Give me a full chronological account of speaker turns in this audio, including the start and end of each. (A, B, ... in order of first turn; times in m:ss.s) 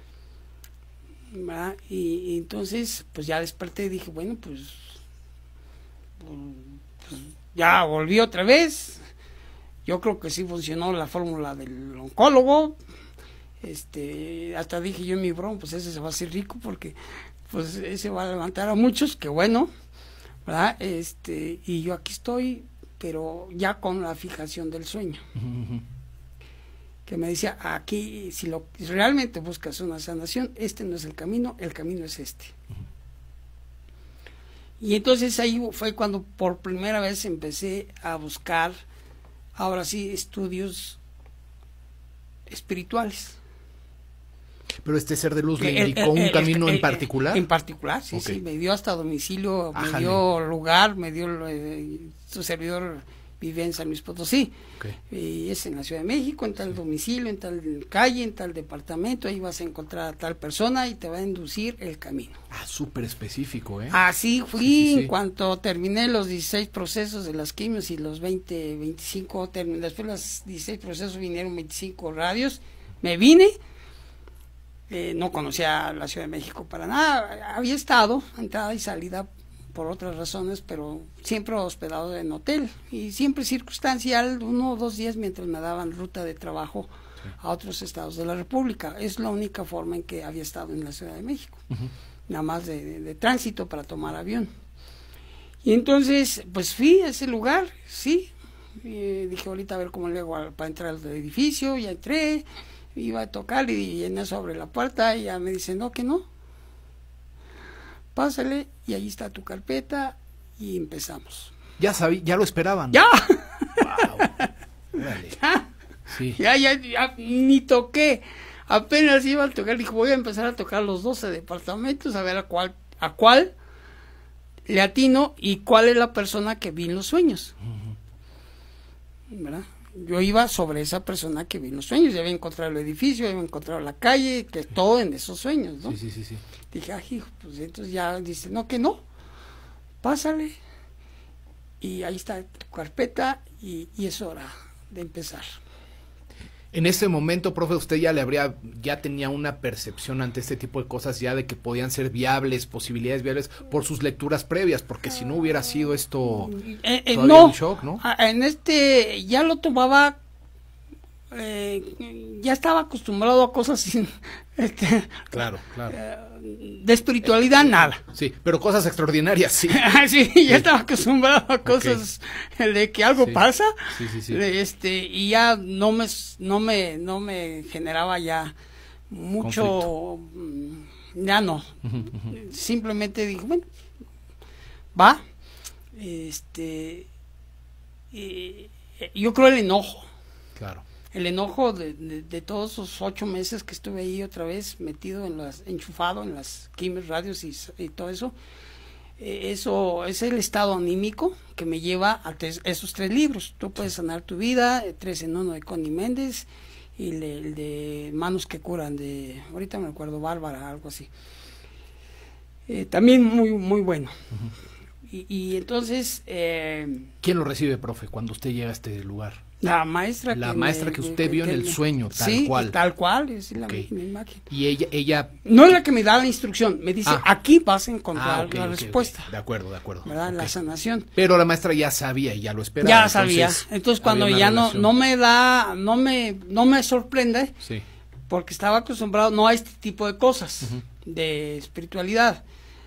0:01.3-0:05.0 A
0:06.2-0:09.0 A
0:09.9-0:12.8 A
0:13.6-0:19.7 A
0:20.4-0:25.2 A
0:25.4-0:25.8 B
0:27.1-0:32.6 A
0:34.8-0:38.8 A
0:39.6-0:41.0 A
0:42.5-0:43.4 A
0:44.8-0:47.4 B
0:45.6-0:54.5 A
0:48.1-0:48.4 B
0:49.7-0:50.2 B
0:55.1-1:02.4 A
1:02.5-1:04.0 B
1:03.9-1:13.5 A
1:04.6-1:05.1 B
1:14.9-1:31.6 A
1:32.3-1:34.5 A
1:35.6-1:46.3 A
1:48.2-1:51.5 A
1:51.8-1:53.0 B
1:52.9-1:54.5 A
1:53.8-1:54.3 B
1:54.9-1:55.4 B
1:55.4-1:55.7 A
1:56.1-1:56.4 B
1:56.2-2:03.5 A
2:04.7-2:07.6 A
2:09.3-2:16.0 A
2:15.8-2:16.4 B
2:16.7-2:19.0 A
2:20.0-2:20.5 A
2:21.8-2:25.5 A
2:26.7-2:36.6 B
2:36.5-2:40.2 A
2:37.1-2:38.0 B
2:41.3-2:48.0 A
2:45.3-2:46.0 B
2:48.0-2:49.8 B
2:49.7-2:58.5 A
2:51.6-2:52.0 B
2:53.2-2:54.4 B
2:59.1-3:03.7 A
2:59.4-2:59.9 B
3:01.8-3:02.2 B
3:04.9-3:05.2 A
3:05.9-3:07.1 A
3:08.1-3:10.1 A
3:10.6-3:10.8 B
3:11.1-3:18.3 A
3:19.2-3:31.1 A
3:32.7-3:34.1 A
3:35.1-3:37.1 A
3:37.2-3:39.4 B
3:39.6-3:44.5 A
3:40.3-3:42.8 B
3:43.6-3:43.9 B
3:44.5-3:45.4 B
3:45.4-3:49.3 A
3:48.2-3:50.5 B
3:50.0-3:51.1 A
3:51.2-3:54.9 B
3:52.8-3:57.5 A
3:58.3-4:02.4 A